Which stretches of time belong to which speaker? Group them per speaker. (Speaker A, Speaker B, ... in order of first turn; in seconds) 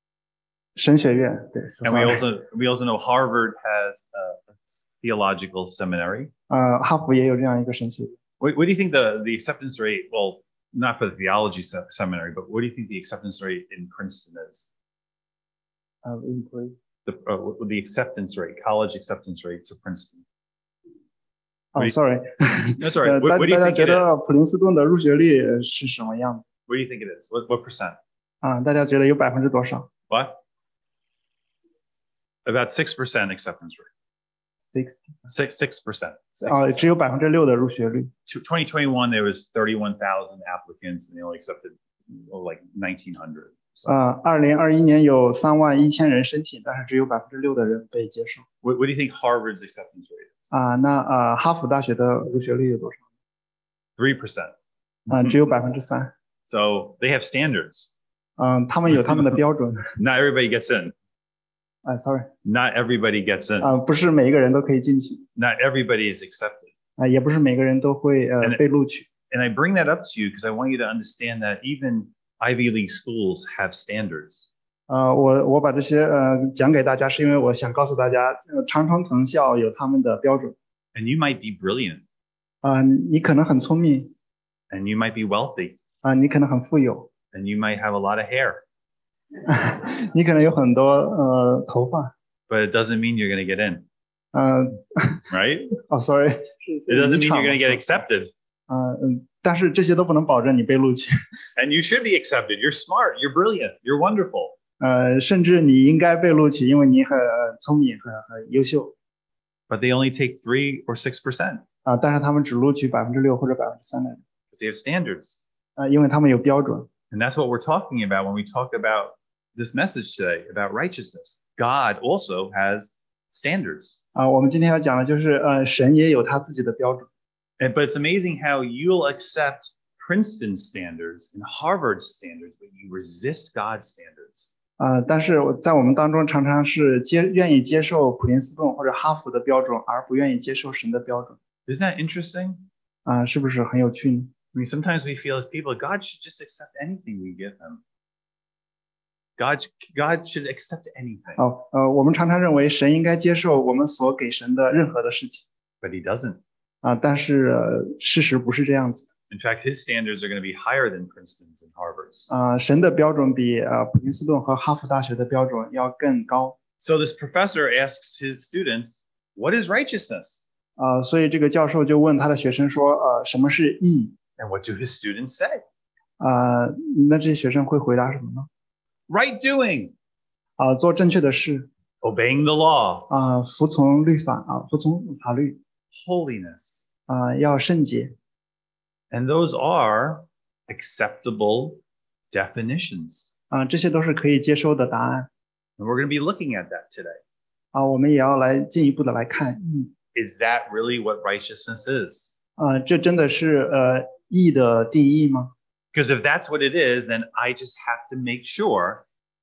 Speaker A: 0.8-2.2, 6.5-8.2, 16.1-16.8, 21.8-26.5, 28.4-29.9, 34.7-35.1, 36.4-38.1, 43.9-48.5, 50.5-53.0, 55.1-56.1, 58.4-59.9, 61.9-62.3, 63.6-65.2, 67.0-69.1, 74.9-80.6, 82.6-84.1, 86.0-87.1, 89.5-92.1, 94.3-95.2, 95.9-98.0, 98.7-101.1, 104.8-109.0, 111.8-114.2, 115.8-116.9, 124.2-127.1, 134.8-141.4, 143.1-144.3, 151.4-155.5, 156.8-159.1, 162.3-166.6, 170.8-174.2, 176.2-178.5, 180.6-181.7, 183.1-185.6, 187.1-188.1, 193.5-195.3, 197.7-199.9, 202.6-205.5
Speaker B: 1.8-6.3, 8.4-14.7, 17.1-20.2, 22.8-24.2, 26.7-28.0, 30.1-30.4, 32.5-33.9, 35.3-36.9, 38.3-43.8, 48.6-50.4, 54.0-54.5, 55.1-55.4, 56.5-57.9, 59.1-59.4, 60.0-60.9, 62.4-63.7, 65.4-66.7, 69.3-74.5, 81.0-82.0, 84.7-85.8, 87.3-88.6, 92.5-93.8, 95.3-95.7, 96.9-98.3, 101.6-104.6, 109.7-111.6, 114.5-115.4, 117.1-124.0, 127.6-134.5, 141.7-142.7, 144.5-147.8, 149.4-151.4, 155.8-156.4, 159.3-162.3, 166.8-170.4, 174.4-175.6, 179.1-179.9, 182.0-183.1, 185.9-186.8, 189.1-193.3, 195.8-197.2, 200.1-202.3, 205.9-209.1